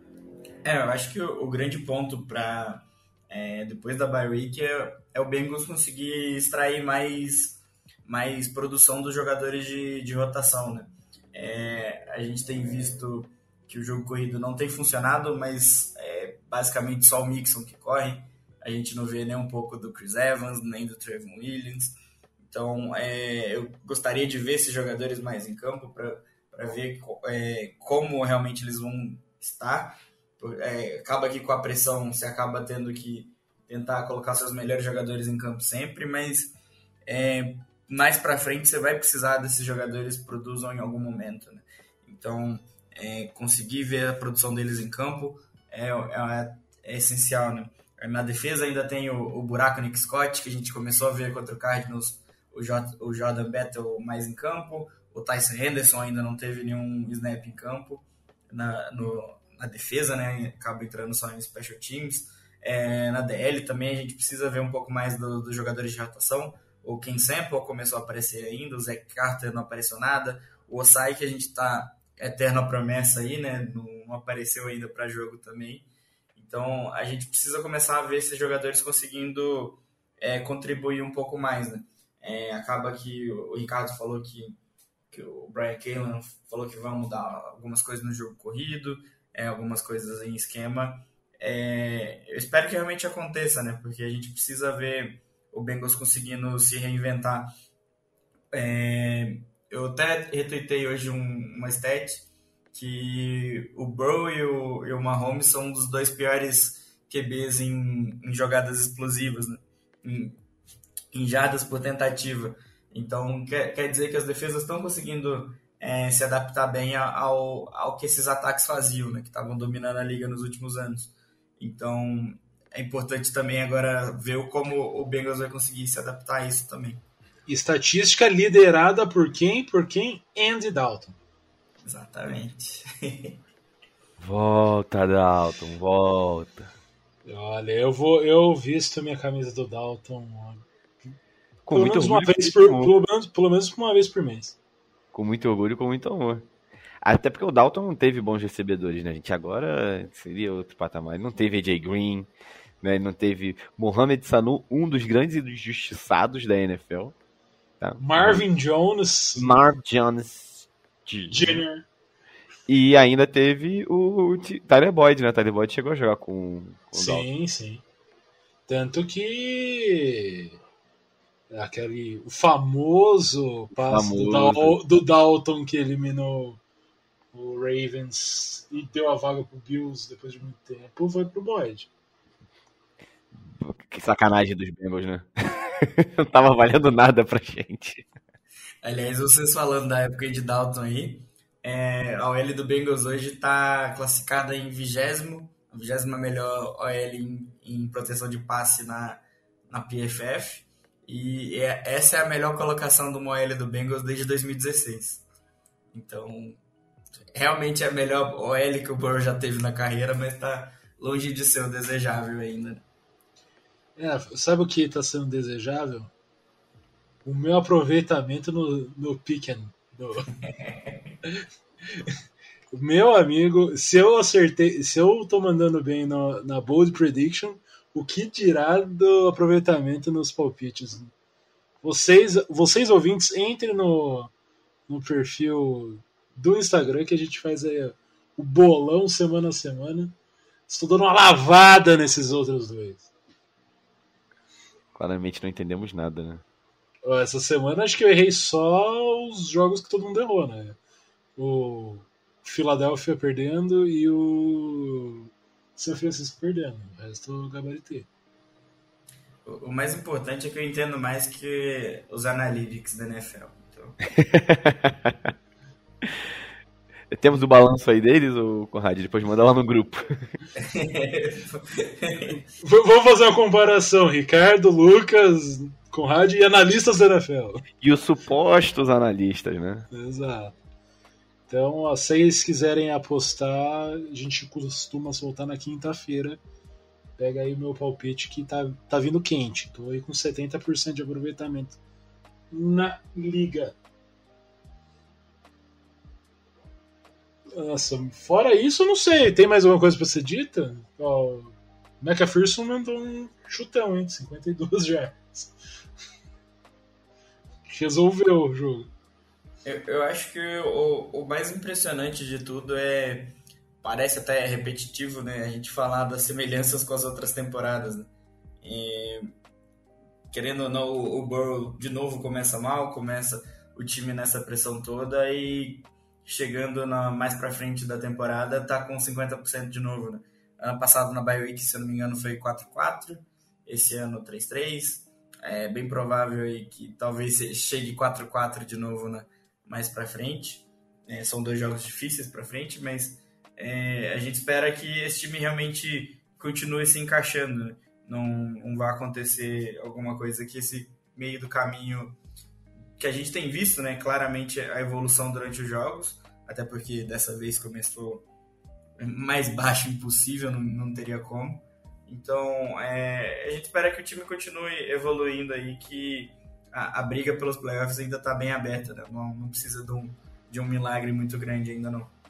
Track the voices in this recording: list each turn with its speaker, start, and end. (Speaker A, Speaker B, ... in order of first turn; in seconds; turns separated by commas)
Speaker A: 0.6-21.9, Speaker A: 22.5-84.6, Speaker A: 85.1-97.5, Speaker A: 98.5-110.4, Speaker A: 111.1-127.0, Speaker B: 127.5-131.2, Speaker A: 131.8-133.4, Speaker C: 134.2-136.7, Speaker B: 137.2-140.7, Speaker C: 141.7-142.9, Speaker B: 141.7-144.6, Speaker C: 145.1-146.5, Speaker C: 147.0-152.3, Speaker C: 152.8-157.2, Speaker C: 157.8-158.4, Speaker B: 158.0-159.6, Speaker C: 159.4-161.6, Speaker B: 161.3-161.9, Speaker C: 162.7-167.3, Speaker B: 166.9-167.8, Speaker B: 168.7-170.5, Speaker B: 171.5-176.6, Speaker C: 173.7-174.8, Speaker B: 177.3-181.9, Speaker C: 183.5-188.1, Speaker A: 188.8-205.2, Speaker A: 205.9-206.6, Speaker A: 207.3-212.8, Speaker B: 214.0-216.1, Speaker B: 217.2-220.3, Speaker A: 220.4-220.9, Speaker B: 222.7-231.1, Speaker B: 231.8-234.3, Speaker B: 234.9-240.1, Speaker B: 240.7-243.1, Speaker C: 244.9-246.4, Speaker B: 247.0-250.8, Speaker B: 251.4-258.1, Speaker A: 259.4-264.0, Speaker C: 264.1-265.3, Speaker C: 267.1-270.1, Speaker A: 270.6-272.4, Speaker B: 272.6-277.6, Speaker C: 277.8-279.9, Speaker B: 279.9-280.6, Speaker B: 281.5-286.4, Speaker B: 287.2-291.8, Speaker B: 292.5-293.8, Speaker B: 297.5-305.5, Speaker B: 307.7-308.9, Speaker A: 309.6-318.1, Speaker A: 318.6-319.3, Speaker A: 320.3-352.2, Speaker A: 353.0-358.3, Speaker A: 359.0-372.1